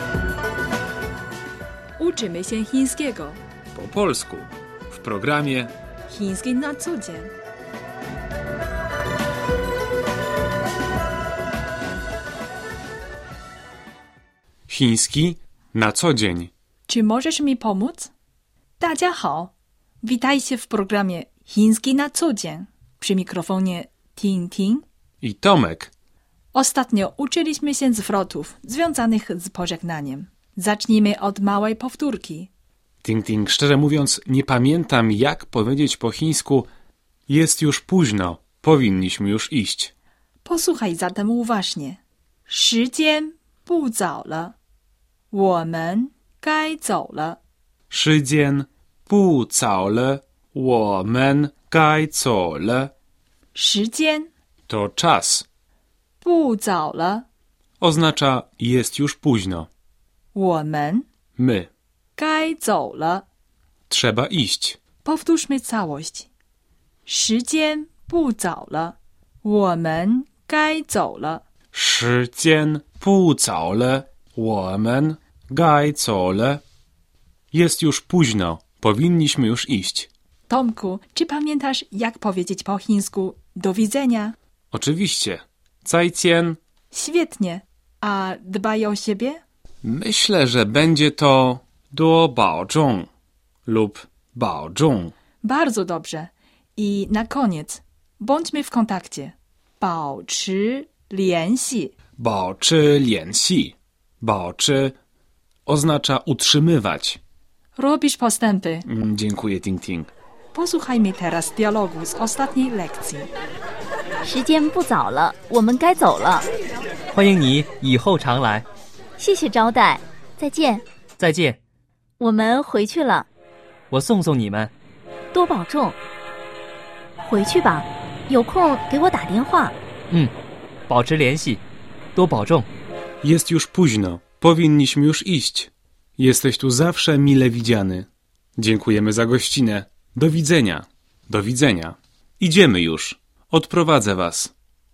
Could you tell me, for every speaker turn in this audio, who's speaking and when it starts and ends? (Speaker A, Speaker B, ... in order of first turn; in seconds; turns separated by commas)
Speaker A: 2.0-3.4, Speaker B: 3.7-5.7, Speaker A: 6.1-7.3, Speaker B: 14.7-16.5, Speaker A: 16.9-18.1, Speaker A: 18.8-24.8, Speaker B: 25.2-25.9, Speaker A: 26.5-32.5, Speaker B: 33.0-36.7, Speaker B: 37.3-39.9, Speaker A: 40.4-44.5, Speaker A: 45.3-47.4, Speaker B: 47.9-52.9, Speaker A: 53.5-54.3, Speaker B: 54.7-55.4, Speaker A: 56.2-57.2, Speaker B: 57.8-59.7, Speaker A: 60.3-61.0, Speaker B: 61.4-61.7, Speaker A: 62.2-63.2, Speaker B: 63.9-64.8, Speaker A: 65.0-66.3, Speaker A: 67.0-71.4, Speaker B: 71.7-76.6, Speaker B: 77.5-80.1, Speaker A: 80.5-84.3, Speaker B: 84.7-86.6, Speaker A: 86.9-89.4, Speaker B: 89.8-93.1, Speaker B: 93.7-95.1, Speaker A: 95.4-101.9, Speaker B: 102.2-105.0, Speaker B: 105.7-107.2, Speaker A: 107.8-108.8, Speaker B: 108.8-110.1, Speaker A: 110.5-113.3, Speaker C: 114.2-116.5, Speaker D: 117.1-118.7, Speaker C: 119.2-120.8, Speaker D: 121.2-121.6, Speaker C: 122.2-123.3, Speaker D: 123.9-124.7, Speaker C: 125.3-126.0, Speaker C: 127.2-129.8, Speaker D: 130.9-131.6, Speaker D: 132.1-132.7, Speaker B: 133.2-144.5